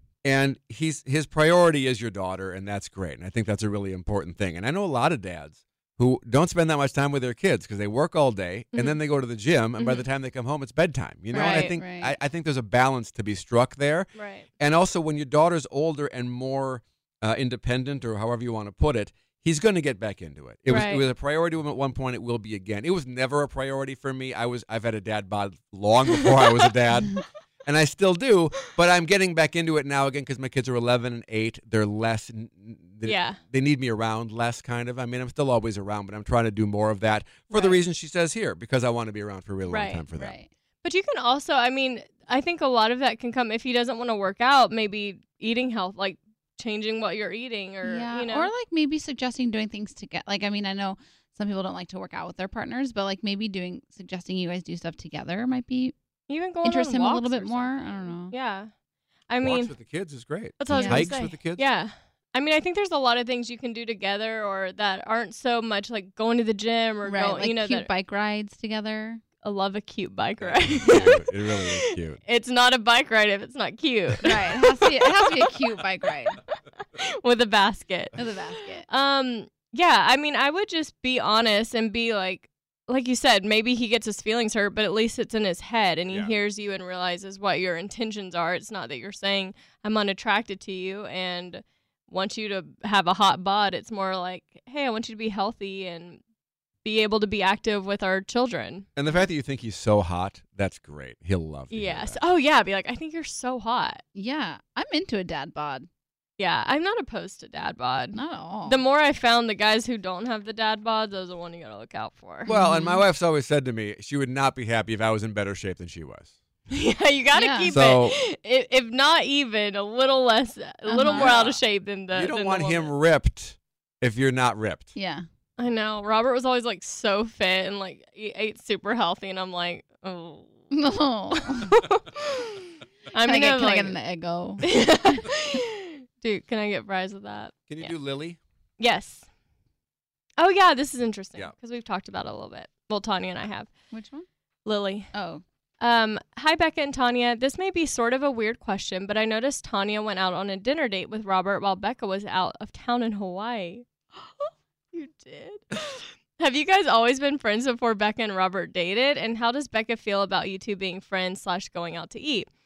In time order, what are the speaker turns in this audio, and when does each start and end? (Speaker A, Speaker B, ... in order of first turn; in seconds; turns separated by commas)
Speaker A: 0.2-40.4, Speaker B: 8.7-9.0, Speaker C: 11.3-12.2, Speaker B: 11.3-11.8, Speaker B: 14.2-14.5, Speaker B: 20.7-21.1, Speaker B: 33.0-33.4, Speaker B: 37.5-37.8, Speaker B: 39.7-40.0, Speaker C: 40.1-40.5, Speaker B: 40.8-48.5, Speaker C: 47.8-56.0, Speaker B: 56.3-58.7, Speaker C: 56.6-58.3, Speaker B: 59.3-59.7, Speaker A: 59.4-61.6, Speaker B: 60.6-67.9, Speaker C: 60.7-61.1, Speaker C: 67.0-69.2, Speaker B: 69.4-75.5, Speaker A: 70.4-72.2, Speaker C: 74.2-76.4, Speaker B: 76.8-78.2, Speaker C: 78.2-78.8, Speaker B: 78.9-96.2, Speaker B: 96.8-98.9, Speaker A: 99.0-102.2, Speaker B: 101.7-104.0, Speaker C: 104.2-105.9, Speaker B: 106.4-112.5, Speaker C: 108.1-108.8, Speaker C: 112.5-113.0, Speaker A: 112.5-116.3, Speaker B: 116.7-122.9, Speaker C: 117.3-117.7, Speaker A: 117.7-118.2, Speaker C: 120.9-121.3, Speaker A: 121.1-121.6, Speaker A: 122.1-124.9, Speaker C: 125.0-125.2, Speaker B: 125.6-130.7, Speaker C: 130.7-131.8, Speaker B: 131.3-134.0, Speaker C: 133.2-135.2, Speaker B: 134.6-137.9, Speaker A: 137.7-138.4, Speaker B: 138.8-139.3, Speaker B: 140.4-143.7, Speaker C: 143.9-144.3, Speaker B: 144.7-145.1, Speaker C: 145.1-145.4, Speaker B: 145.8-153.9, Speaker B: 154.4-162.5